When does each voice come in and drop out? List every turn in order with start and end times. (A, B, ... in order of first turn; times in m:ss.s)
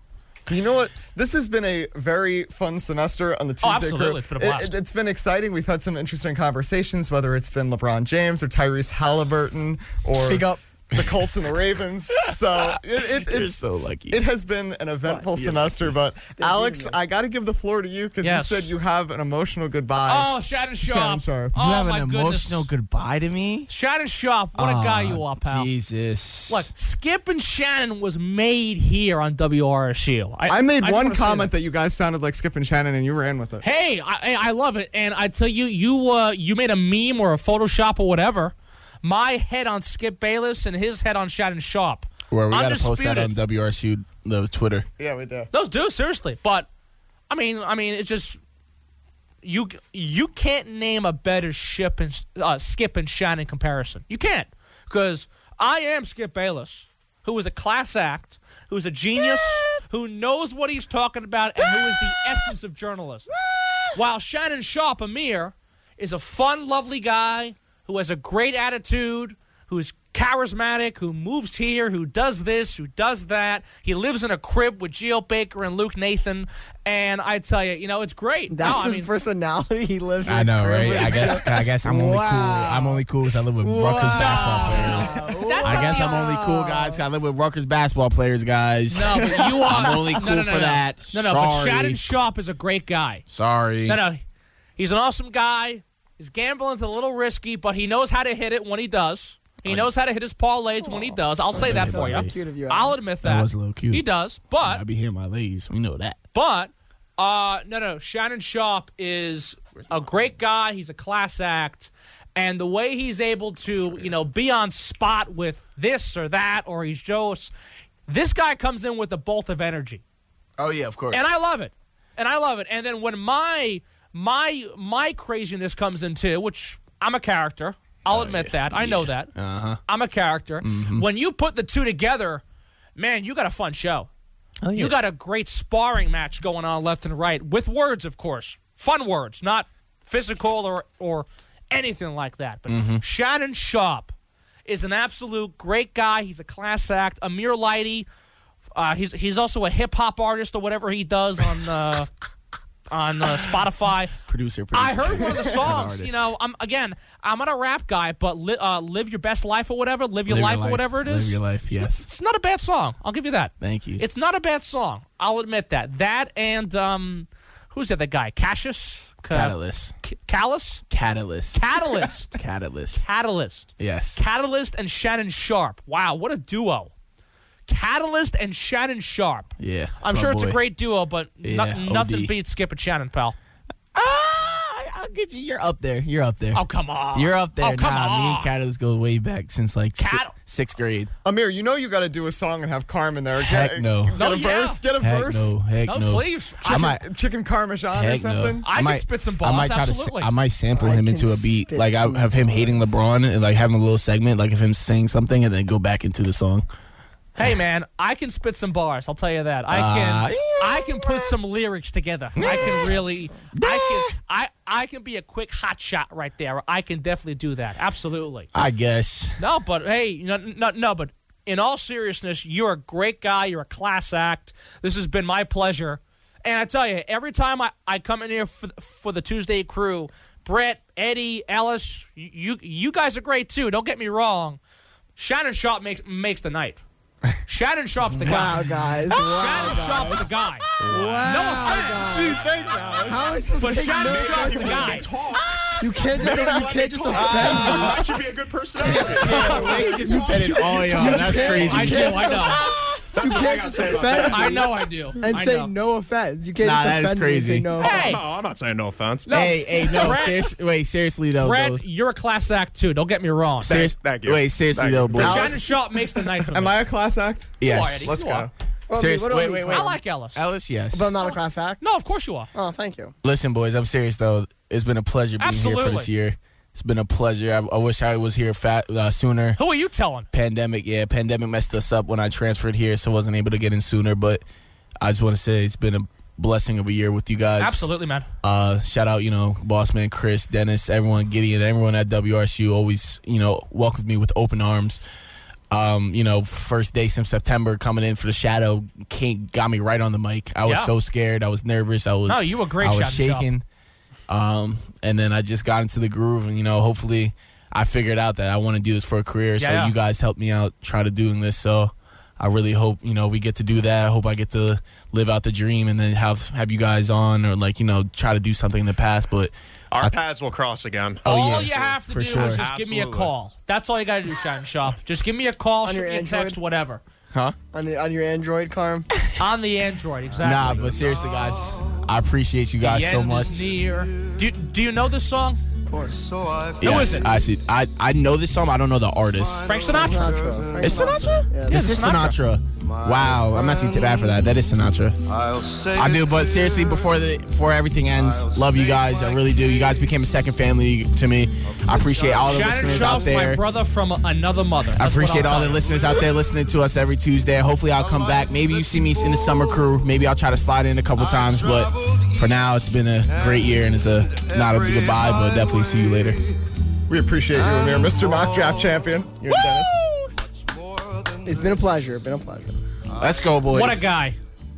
0:00.5-0:13.6 A
0:03.6-0:04.7 B
0:10.2-0:10.6 C
0:11.0-0:11.6 D
0:12.1-0:14.2 D
0:14.1-0:21.5 A
0:15.0-0:15.3 C
0:15.4-0:15.9 D
0:16.4-0:17.0 C
0:18.2-0:18.7 B
0:20.0-0:22.7 B
0:21.5-0:23.7 D
0:23.7-0:25.7 B
0:24.6-0:26.7 D
0:26.5-0:31.5 B
0:30.5-0:33.6 A
0:33.6-0:43.3 B
0:42.3-0:44.9 D
0:45.0-0:45.5 A
0:45.5-0:46.7 B
0:47.3-0:48.4 B
0:49.4-1:03.3 B
0:59.2-0:59.5 D
1:01.6-1:02.2 D
1:03.3-1:03.9 D
1:04.0-1:19.1 B
1:18.5-1:23.0 C
1:20.2-1:32.1 D
1:21.0-1:21.2 B
1:23.6-1:27.0 C
1:24.1-1:26.3 B
1:28.9-1:33.2 B
1:29.2-1:29.9 A
1:33.3-1:34.0 D
1:33.9-1:34.2 B
1:34.8-1:44.8 B
1:41.5-1:43.1 C
1:41.5-1:42.4 D
1:43.2-1:44.1 D
1:44.6-1:46.2 D
1:46.3-1:57.5 B
1:49.8-1:50.2 D
1:53.8-1:54.1 D
1:58.1-2:00.0 B
2:00.6-2:01.3 D
2:01.1-2:09.3 B
2:08.1-2:09.8 D
2:09.9-2:12.4 B
2:10.6-2:11.1 D
2:13.0-2:14.1 B
2:14.6-2:15.0 D
2:14.7-2:24.1 B
2:22.7-2:23.0 D
2:24.7-2:28.1 B
2:28.8-2:32.1 B
2:32.9-2:34.2 B
2:34.3-2:36.2 D
2:34.7-2:50.8 B
2:40.3-2:42.1 D
2:43.6-2:44.0 D
2:49.3-2:50.0 D
2:50.9-2:53.1 D
2:51.5-2:52.4 B
2:53.0-2:56.9 B
2:53.8-2:54.2 D
2:57.7-3:03.4 B
2:59.6-3:00.6 D
3:01.4-3:02.3 D
3:04.0-3:11.1 D
3:06.5-3:08.5 B
3:10.0-3:10.3 B
3:11.2-3:15.6 A
3:13.4-3:14.3 D
3:14.2-3:14.8 B
3:15.0-3:17.0 D
3:15.8-3:17.0 B
3:16.6-3:18.7 A
3:17.9-3:26.6 D
3:18.6-3:20.3 B
3:20.8-3:23.0 C
3:27.4-3:38.5 B
3:29.7-3:31.3 D
3:32.4-3:33.0 D
3:32.4-3:33.4 C
3:33.5-3:34.1 D
3:38.5-3:39.4 D
3:39.4-3:54.6 B
3:55.2-3:56.8 B
3:57.5-3:58.6 B
3:58.1-4:00.3 C
3:58.2-4:00.1 D
3:59.2-4:01.9 B
4:00.8-4:01.3 D
4:00.9-4:05.1 C
4:02.2-4:03.1 E
4:02.3-4:03.2 A
4:03.6-4:05.1 B
4:03.9-4:10.0 E
4:05.5-4:05.8 D
4:05.8-4:08.2 C
4:07.1-4:08.1 D
4:08.8-4:13.4 D
4:08.8-4:18.2 C
4:11.4-4:11.8 E
4:11.6-4:12.6 B
4:13.1-4:14.7 E
4:14.2-4:15.7 B
4:16.6-4:17.7 D
4:17.8-4:18.3 B
4:17.8-4:19.3 E
4:19.3-4:20.5 B
4:19.3-4:21.8 D
4:21.4-4:23.8 B
4:23.6-4:25.6 E
4:23.7-4:25.6 D
4:25.2-4:26.7 B
4:26.5-4:28.5 A
4:27.6-4:28.2 D
4:27.6-4:28.5 B
4:28.9-4:30.0 C
4:28.9-4:31.1 D
4:29.7-4:30.4 B
4:30.9-4:31.8 C
4:31.2-4:32.5 B
4:32.5-4:33.1 C
4:33.2-4:39.6 D
4:35.4-4:36.1 B
4:39.6-4:40.3 B
4:40.3-4:44.4 D
4:45.0-4:47.9 D
4:47.6-4:48.3 B
4:48.4-4:55.0 D
4:55.7-5:03.6 D
5:00.6-5:00.9 B
5:02.3-5:03.5 B
5:04.3-5:20.1 D
5:09.6-5:09.9 B
5:19.9-5:23.3 E
5:21.2-5:22.6 D
5:21.2-5:27.0 B
5:25.8-5:26.6 C
5:27.7-5:29.1 C
5:29.2-5:29.4 D
5:29.4-5:30.9 B
5:30.4-5:33.8 D
5:32.8-5:35.6 B
5:35.9-5:36.3 C
5:36.8-5:39.8 D
5:36.8-5:37.3 B
5:39.6-5:40.4 B
5:40.0-5:41.8 C
5:40.8-5:45.2 D
5:41.7-5:42.4 B
5:45.7-5:53.6 D
5:52.4-5:56.0 B
5:55.0-6:06.5 D
6:07.1-6:10.0 A
6:09.4-6:10.3 D
6:11.4-6:12.8 C
6:13.2-6:14.1 D
6:13.7-6:14.4 B